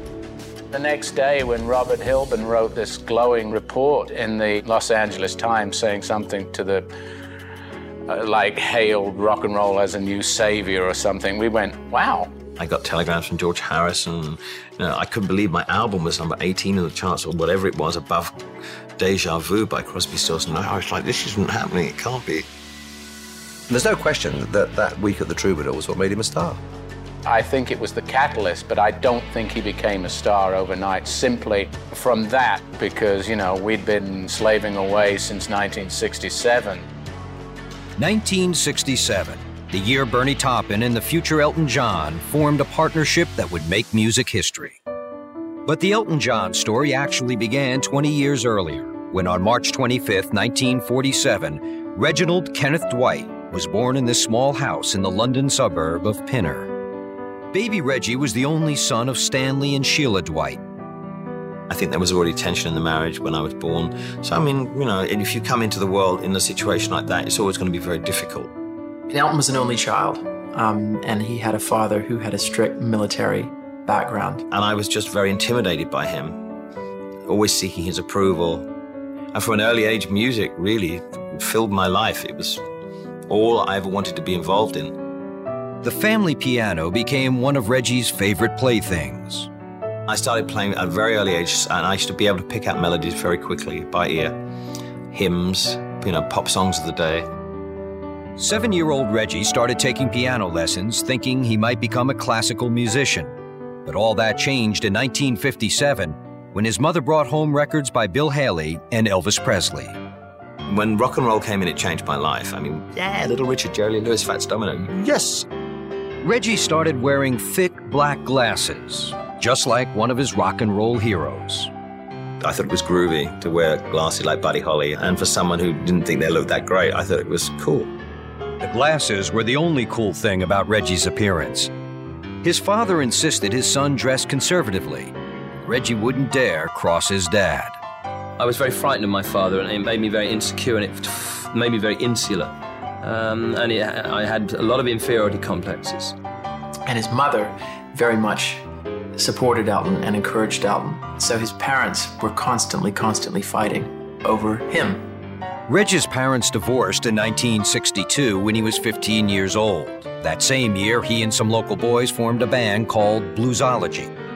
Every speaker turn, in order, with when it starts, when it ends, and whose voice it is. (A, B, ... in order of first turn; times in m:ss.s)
0:00.7-0:06.9 A
0:08.1-0:12.3 A
0:12.6-0:18.4 B
0:19.0-0:22.4 B
0:23.7-0:26.6 C
0:27.2-0:36.9 A
0:38.0-0:44.8 D
0:45.6-0:56.7 D
0:57.5-1:00.6 D
1:01.7-1:08.5 B
1:09.1-1:14.4 E
1:14.5-1:16.4 B
1:17.3-1:18.7 B
1:19.3-1:22.6 B
1:23.3-1:25.0 B
1:25.8-1:29.5 D
1:30.1-1:34.4 B
1:35.1-1:37.3 B
1:38.4-1:50.0 D
1:50.7-1:55.5 B
1:56.2-2:01.7 D
2:02.4-2:07.9 B
2:08.6-2:11.7 D
2:12.4-2:17.8 D
2:18.4-2:26.1 F
2:26.8-2:35.0 E
2:35.7-2:44.1 D